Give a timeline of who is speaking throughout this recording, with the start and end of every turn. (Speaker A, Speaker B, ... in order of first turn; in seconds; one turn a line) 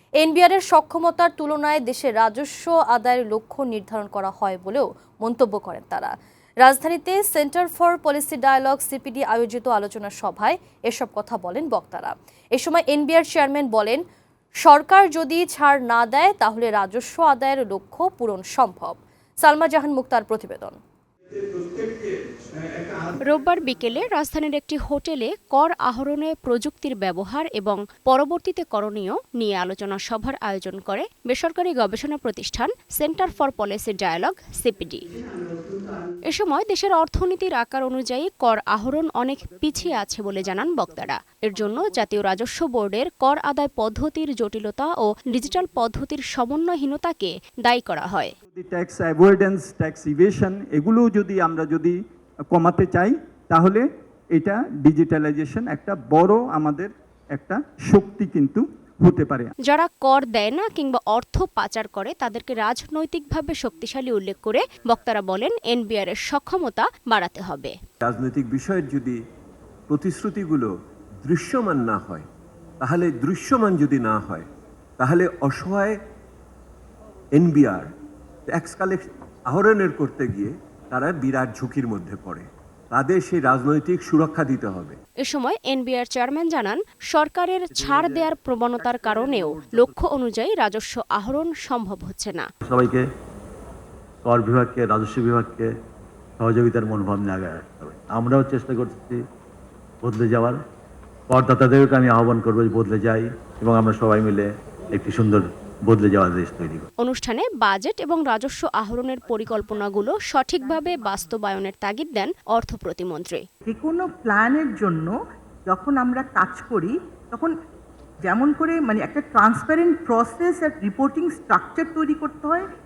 Speaker A: 0.2-6.1
Speaker A: 6.6-14.0
Speaker A: 14.6-20.8
Speaker B: 21.5-22.1
Speaker B: 22.7-23.1
Speaker C: 23.2-35.0
Speaker C: 36.3-48.3
Speaker B: 48.5-52.0
Speaker B: 52.5-59.5
Speaker C: 59.7-67.7
Speaker D: 68.0-69.2
Speaker D: 69.9-70.7
Speaker D: 71.2-72.2
Speaker D: 72.8-74.5
Speaker D: 75.0-75.9
Speaker D: 77.3-77.9
Speaker D: 78.5-85.0
Speaker C: 85.2-92.5
Speaker E: 87.7-89.9
Speaker E: 92.7-93.0
Speaker E: 94.2-95.7
Speaker E: 96.4-99.2
Speaker E: 100.0-100.6
Speaker E: 101.3-106.9
Speaker C: 107.0-113.4
Speaker F: 109.3-111.4
Speaker F: 113.7-115.2
Speaker F: 115.7-117.5
Speaker F: 118.2-122.7